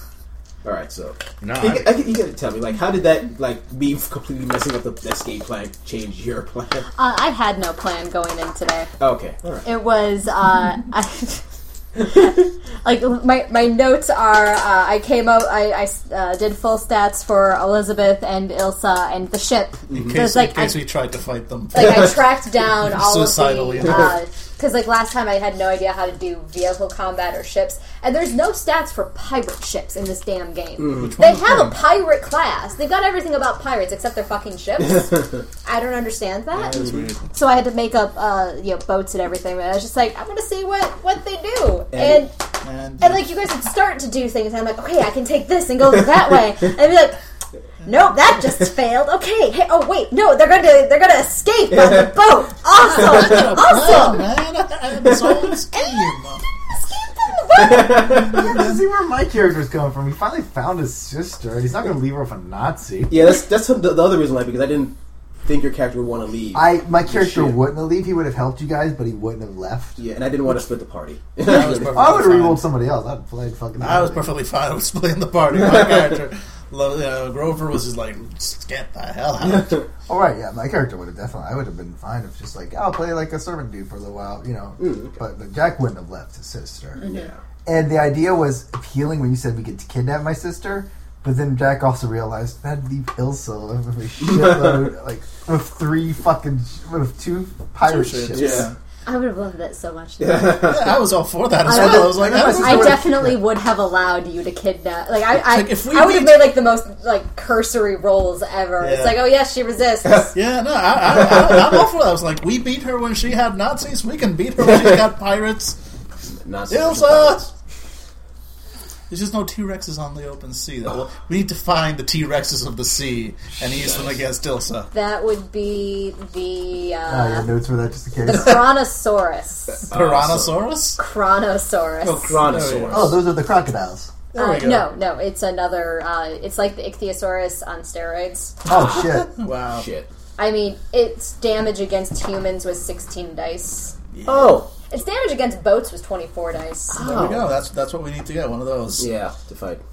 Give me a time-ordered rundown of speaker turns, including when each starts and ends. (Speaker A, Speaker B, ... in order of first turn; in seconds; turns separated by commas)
Speaker A: 0.6-6.9, Speaker B: 1.4-1.9, Speaker C: 7.0-8.9, Speaker A: 9.0-9.7, Speaker C: 9.7-11.4, Speaker C: 12.0-20.8, Speaker A: 19.9-20.2, Speaker D: 19.9-22.2, Speaker C: 21.7-36.8, Speaker D: 22.8-24.2, Speaker A: 30.8-31.1, Speaker D: 30.9-31.8, Speaker D: 36.5-37.3, Speaker A: 36.8-37.0, Speaker C: 37.3-42.4, Speaker A: 41.9-42.2, Speaker D: 42.6-43.2, Speaker C: 43.0-47.2, Speaker C: 47.8-54.2, Speaker D: 53.0-56.4, Speaker C: 56.8-58.2, Speaker A: 57.6-58.3, Speaker D: 58.0-58.8, Speaker B: 58.0-63.2, Speaker A: 63.1-67.6, Speaker B: 66.5-70.0, Speaker A: 70.0-72.2, Speaker D: 71.4-72.6, Speaker B: 71.9-74.3, Speaker D: 73.8-79.8, Speaker A: 79.5-79.8, Speaker B: 80.1-87.1, Speaker A: 84.8-85.2, Speaker A: 87.0-87.4, Speaker B: 87.7-98.7, Speaker D: 97.8-98.8, Speaker A: 98.3-98.7, Speaker C: 99.1-100.8, Speaker A: 100.2-101.0, Speaker D: 100.6-103.1, Speaker C: 101.7-110.3, Speaker B: 101.7-103.4, Speaker D: 105.3-106.5, Speaker D: 108.8-109.3, Speaker D: 110.3-115.8, Speaker A: 116.2-117.5, Speaker D: 116.7-117.5, Speaker D: 119.1-124.9, Speaker A: 123.8-124.2, Speaker C: 124.9-127.5, Speaker B: 127.1-128.7, Speaker C: 128.2-129.9, Speaker A: 129.9-130.6, Speaker D: 129.9-131.0, Speaker C: 131.0-132.4, Speaker D: 132.0-133.2, Speaker A: 132.1-133.1, Speaker B: 132.9-134.1, Speaker D: 134.3-134.9, Speaker C: 134.3-138.6, Speaker B: 138.7-139.3, Speaker A: 138.7-140.1, Speaker D: 139.4-139.9, Speaker C: 140.4-143.9, Speaker D: 144.1-144.6, Speaker A: 144.2-144.7, Speaker C: 144.9-147.3, Speaker A: 146.9-147.4, Speaker D: 147.0-149.1, Speaker A: 149.0-149.8